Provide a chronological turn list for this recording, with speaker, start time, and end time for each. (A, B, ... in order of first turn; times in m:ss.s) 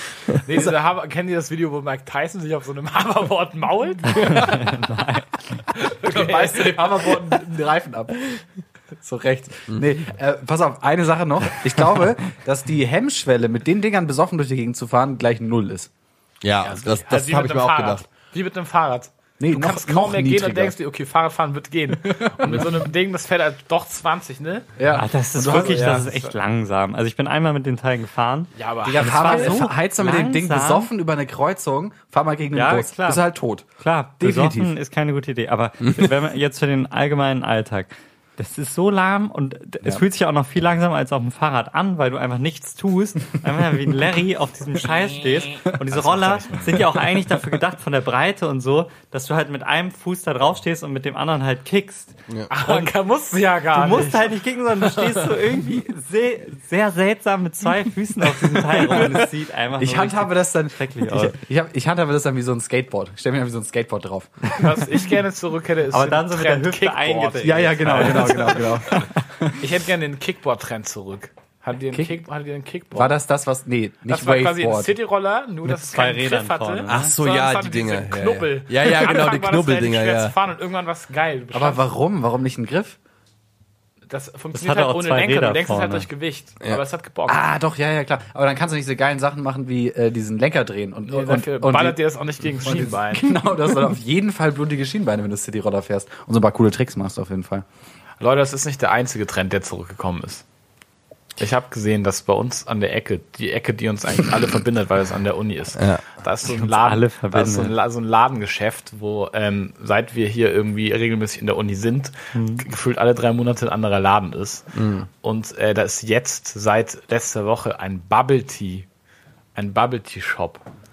0:00.3-0:04.7 A
0:04.1-0:05.6 B
0:05.7-0:07.4 A
0:06.0-0:08.4 C
0:08.9-0:15.9 C
0:16.4-0:18.0 D
0:16.6-0:24.8 A
0:19.4-0:20.7 C
0:22.1-0:22.7 C
0:24.8-0:26.0 C
0:24.9-0:30.9 B
0:25.3-0:26.3 A
0:28.6-0:29.6 A
0:28.8-0:33.6 C
0:32.5-0:33.2 B
0:33.8-0:52.9 B
0:34.2-0:34.7 C
0:45.7-0:46.9 A
0:52.5-0:55.3 A
0:53.7-1:01.4 B
0:59.8-1:04.5 C
1:04.6-1:08.6 A
1:05.9-1:09.5 B
1:07.4-1:09.0 C
1:09.5-1:13.2 A
1:12.9-1:14.9 C
1:14.1-1:21.8 A
1:15.6-1:17.1 B
1:16.9-1:20.3 D
1:21.5-1:23.0 C
1:24.1-1:27.4 A
1:24.5-1:26.1 B
1:27.3-1:32.0 C
1:31.1-1:33.4 A
1:32.6-1:37.6 C
1:38.2-1:40.4 A
1:41.4-1:54.7 A
1:45.8-1:46.0 D
1:46.4-1:47.7 B
1:52.3-1:52.6 B
1:54.7-1:55.1 D
1:55.2-1:58.9 A
1:59.6-2:00.6 A